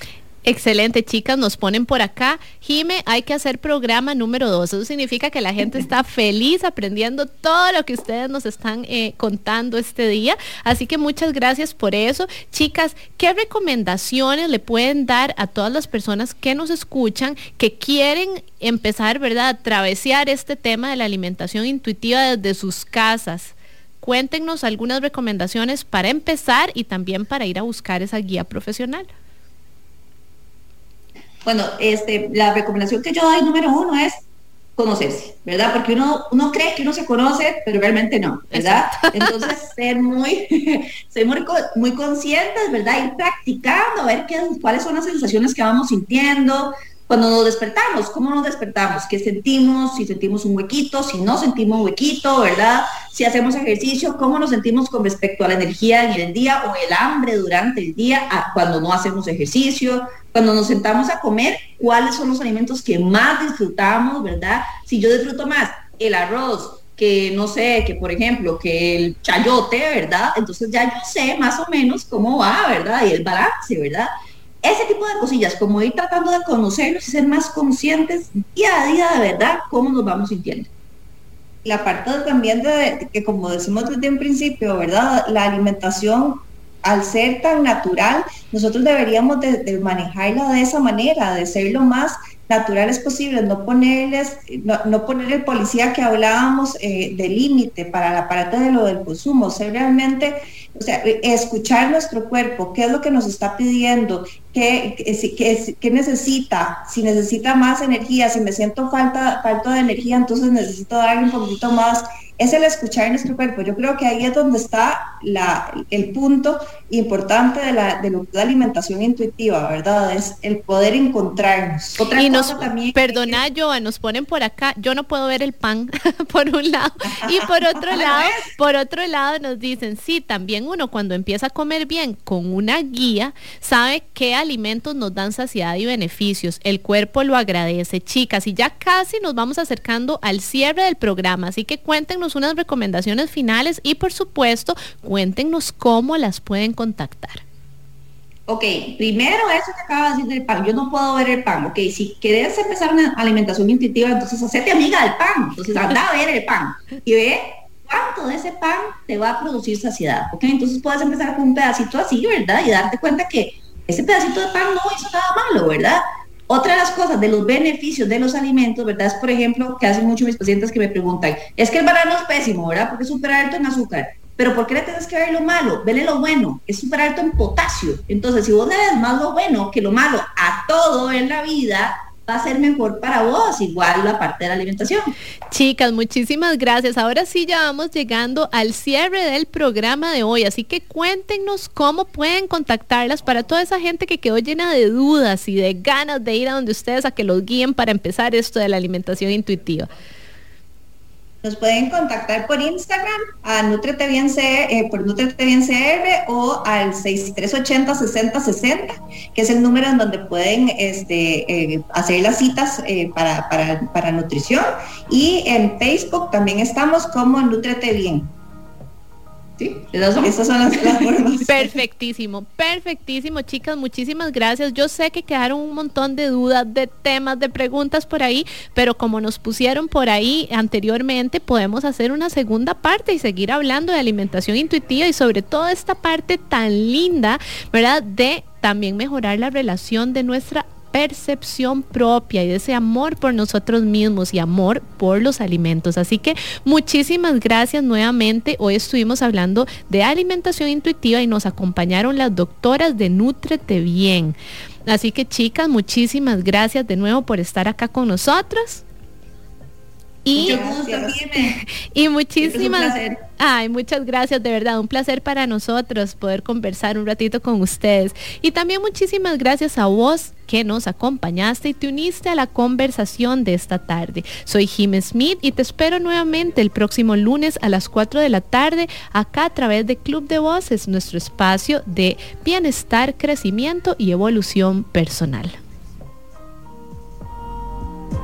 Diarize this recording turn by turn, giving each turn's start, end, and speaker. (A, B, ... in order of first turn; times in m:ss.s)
0:00.4-0:29.1 A
0:31.4-0:34.2 B
0:34.8-1:14.1 B
0:38.5-0:39.3 A
1:14.6-1:20.7 B
1:21.6-2:03.3 C
2:02.0-2:02.9 B
2:02.2-2:27.4 A
2:07.9-2:08.4 B
2:28.5-3:05.1 B
3:05.5-3:19.9 A
3:21.4-3:38.3 C
3:39.6-3:41.1 B
3:40.2-3:41.8 C
3:41.5-4:18.8 A
4:20.2-4:20.6 A
4:20.4-4:21.2 C
4:20.4-4:21.5 B
4:21.9-4:45.6 A
4:22.4-4:23.2 B